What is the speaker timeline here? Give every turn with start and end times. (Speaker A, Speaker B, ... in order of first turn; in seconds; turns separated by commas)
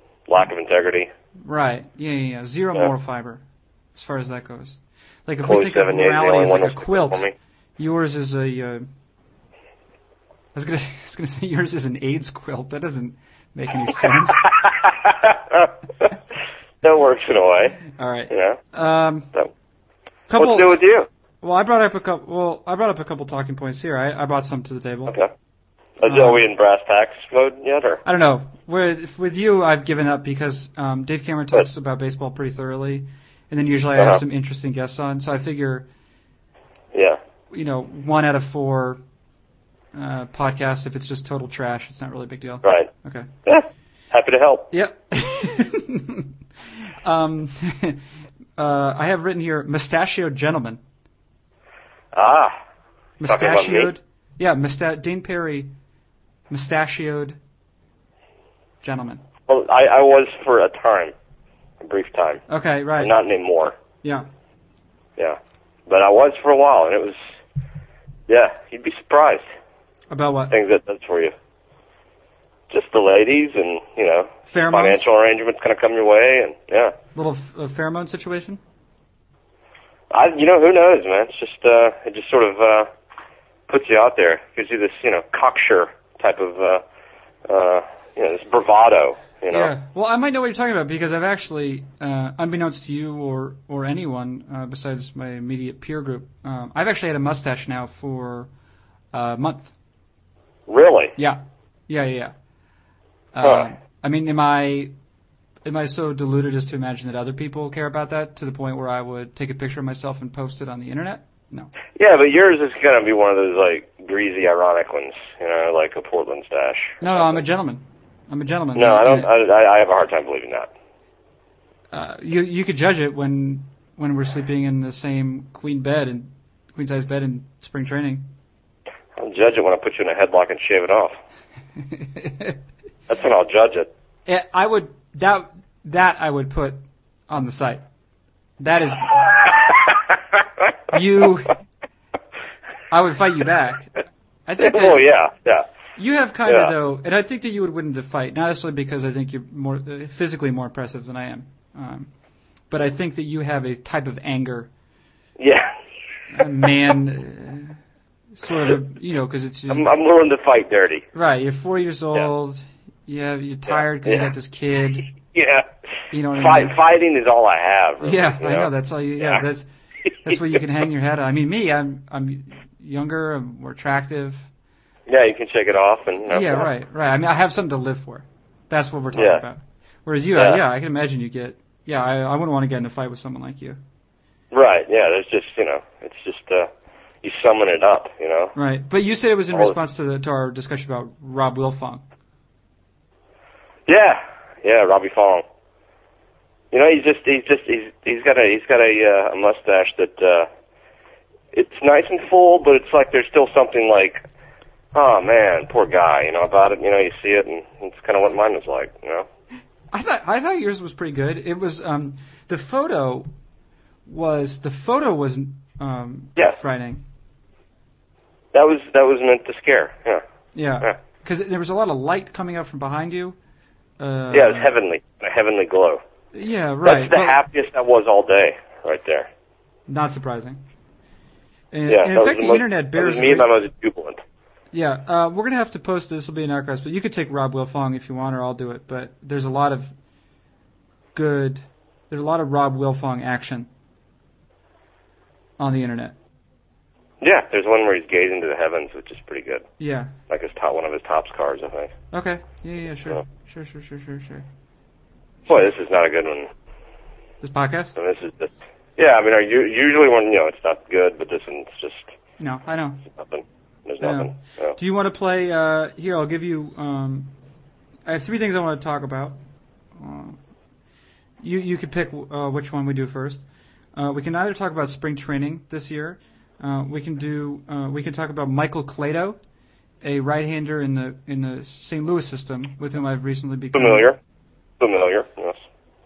Speaker A: 0.3-1.1, Speaker B: 1.4-3.4, Speaker B: 3.9-8.9, Speaker A: 5.5-7.3, Speaker B: 10.6-14.5, Speaker A: 14.4-16.1, Speaker A: 16.8-17.8, Speaker B: 17.9-19.3, Speaker A: 18.3-18.6, Speaker B: 20.3-20.8, Speaker A: 20.4-21.1, Speaker B: 21.4-25.2, Speaker A: 26.0-28.0, Speaker B: 26.0-26.4, Speaker B: 28.1-35.9, Speaker A: 36.9-37.2, Speaker B: 37.5-39.0, Speaker B: 39.9-43.3, Speaker A: 42.6-42.9, Speaker A: 43.5-44.7, Speaker B: 44.7-46.3, Speaker B: 47.0-48.0, Speaker B: 48.6-50.8, Speaker A: 52.1-52.5, Speaker B: 53.2-55.7, Speaker A: 53.3-53.9, Speaker B: 56.5-57.4, Speaker B: 58.8-59.2, Speaker A: 59.5-61.1, Speaker A: 61.8-62.4, Speaker B: 62.5-63.1, Speaker A: 63.0-63.8, Speaker A: 65.2-67.2, Speaker A: 68.3-69.5, Speaker B: 70.1-70.6, Speaker A: 70.5-71.3, Speaker A: 72.7-77.0, Speaker B: 74.5-75.1, Speaker B: 77.2-78.6, Speaker A: 80.1-82.9, Speaker A: 83.7-86.8, Speaker A: 87.5-89.7, Speaker B: 89.5-98.5, Speaker B: 99.1-99.7, Speaker A: 100.7-101.2, Speaker B: 101.2-102.3, Speaker B: 103.3-104.9, Speaker A: 103.4-103.7, Speaker B: 105.7-111.7, Speaker A: 112.0-117.4, Speaker B: 117.0-119.3, Speaker A: 118.8-120.7, Speaker B: 121.9-128.3, Speaker A: 129.2-131.1, Speaker B: 131.8-132.6, Speaker A: 133.1-133.9, Speaker B: 134.3-137.8, Speaker B: 138.6-139.3, Speaker A: 139.2-140.1, Speaker B: 140.9-141.6, Speaker B: 142.9-145.1, Speaker A: 144.6-145.7, Speaker B: 146.0-152.1, Speaker A: 146.5-146.7, Speaker B: 152.7-154.7, Speaker A: 155.4-155.7, Speaker B: 156.3-157.8, Speaker B: 158.4-159.9, Speaker A: 159.7-161.1, Speaker B: 161.1-165.1, Speaker A: 163.7-164.3, Speaker A: 165.2-165.7, Speaker B: 166.1-166.8, Speaker A: 166.4-169.4, Speaker B: 168.0-169.7, Speaker B: 170.2-174.5, Speaker A: 175.1-176.7, Speaker B: 176.3-183.8, Speaker A: 179.2-179.4, Speaker A: 180.4-180.6, Speaker A: 184.5-186.7, Speaker A: 187.2-188.5, Speaker B: 188.6-192.0, Speaker A: 193.9-195.4, Speaker A: 196.7-200.5, Speaker A: 201.5-204.2, Speaker A: 204.9-209.3, Speaker B: 209.9-213.3, Speaker B: 214.1-217.0, Speaker A: 218.5-220.2, Speaker B: 220.5-223.4, Speaker B: 224.0-224.7, Speaker A: 224.3-226.0, Speaker B: 226.3-227.4, Speaker A: 226.8-229.3, Speaker B: 229.9-230.6, Speaker B: 231.7-233.5, Speaker A: 231.9-234.2, Speaker B: 234.7-239.9, Speaker B: 241.2-243.7, Speaker B: 245.6-246.2, Speaker A: 247.2-249.7, Speaker B: 249.8-250.1, Speaker A: 250.3-251.9, Speaker B: 252.1-254.4, Speaker A: 255.5-256.5, Speaker B: 257.4-258.0, Speaker A: 258.0-262.1, Speaker B: 262.4-263.0, Speaker A: 263.1-264.8, Speaker B: 264.0-267.3, Speaker B: 268.1-269.4, Speaker B: 270.0-270.4, Speaker B: 271.4-273.4, Speaker B: 273.9-279.4, Speaker B: 280.0-284.1, Speaker A: 283.7-284.2, Speaker A: 284.8-285.6